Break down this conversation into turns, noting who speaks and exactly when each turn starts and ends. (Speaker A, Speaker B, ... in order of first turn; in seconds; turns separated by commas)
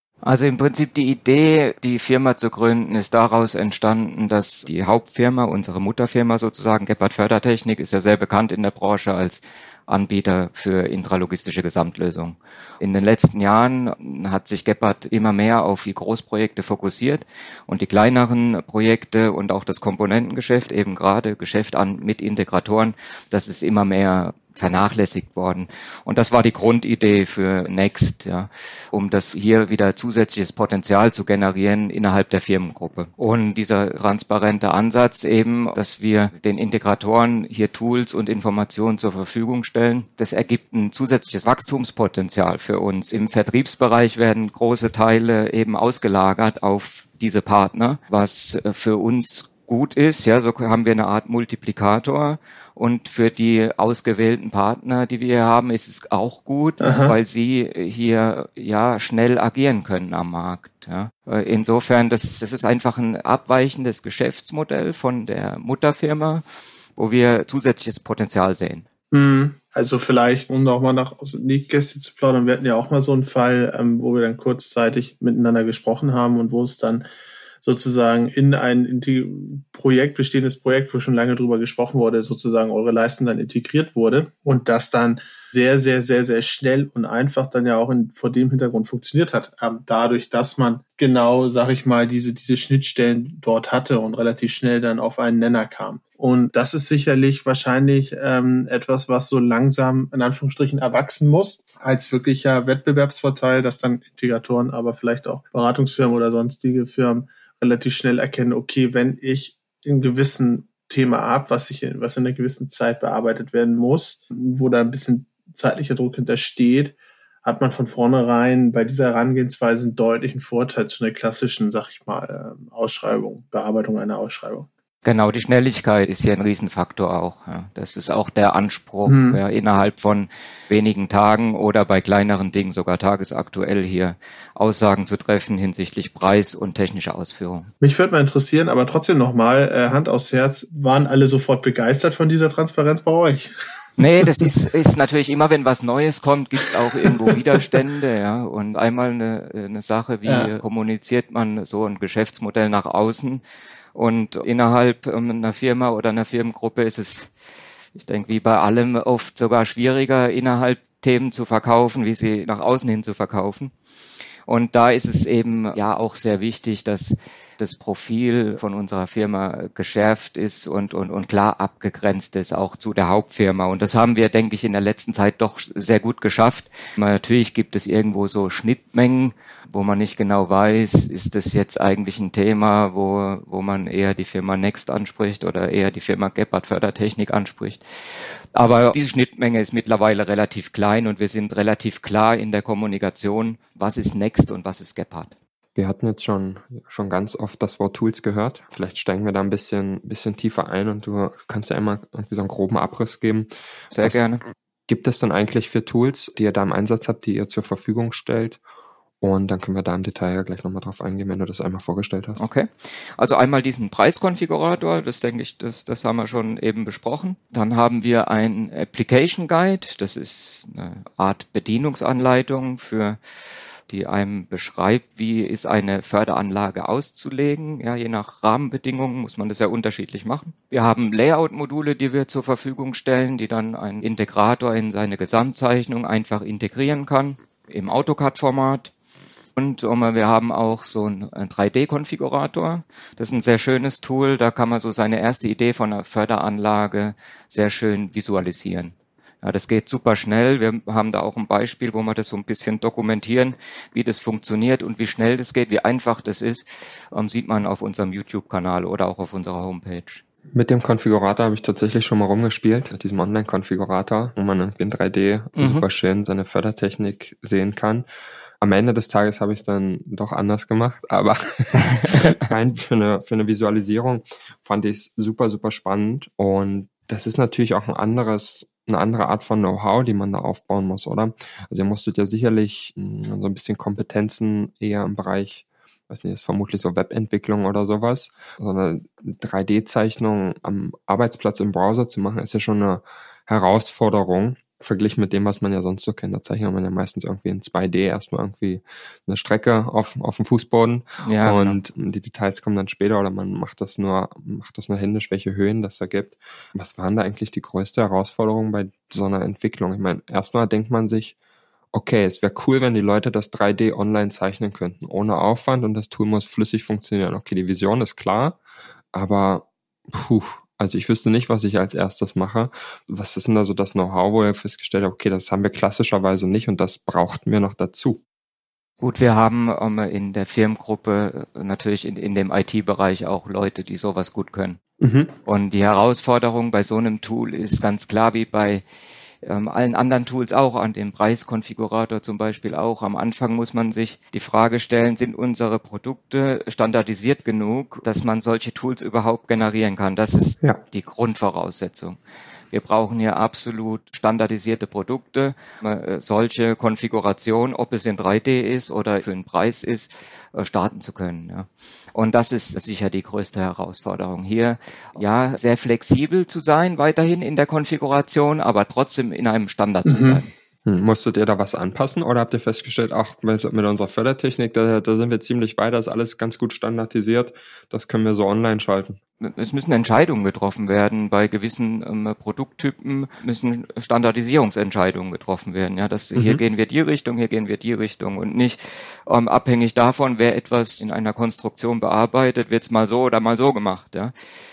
Speaker A: 0.2-66.4, Speaker B: 56.8-57.1, Speaker A: 67.0-68.8, Speaker B: 69.1-77.0, Speaker B: 77.6-124.7, Speaker A: 125.0-137.7, Speaker B: 129.1-129.4, Speaker B: 137.8-143.5, Speaker A: 144.0-153.4, Speaker B: 150.2-150.5, Speaker A: 153.9-157.3, Speaker A: 157.9-163.7, Speaker A: 164.4-187.8, Speaker A: 188.5-195.3, Speaker C: 195.8-203.5, Speaker A: 203.9-204.4, Speaker C: 204.9-208.6, Speaker C: 209.2-212.4, Speaker A: 212.4-223.2, Speaker A: 223.9-238.9, Speaker A: 239.6-260.2, Speaker C: 260.5-268.1, Speaker A: 265.6-265.8, Speaker C: 268.6-311.3, Speaker A: 301.2-301.8, Speaker C: 311.9-318.6, Speaker C: 319.1-328.2, Speaker A: 329.0-334.8, Speaker C: 335.0-335.3, Speaker A: 335.4-338.8, Speaker A: 339.4-352.2, Speaker A: 352.7-370.5, Speaker B: 370.0-370.4, Speaker C: 370.9-379.2, Speaker A: 379.4-394.3, Speaker C: 386.3-386.6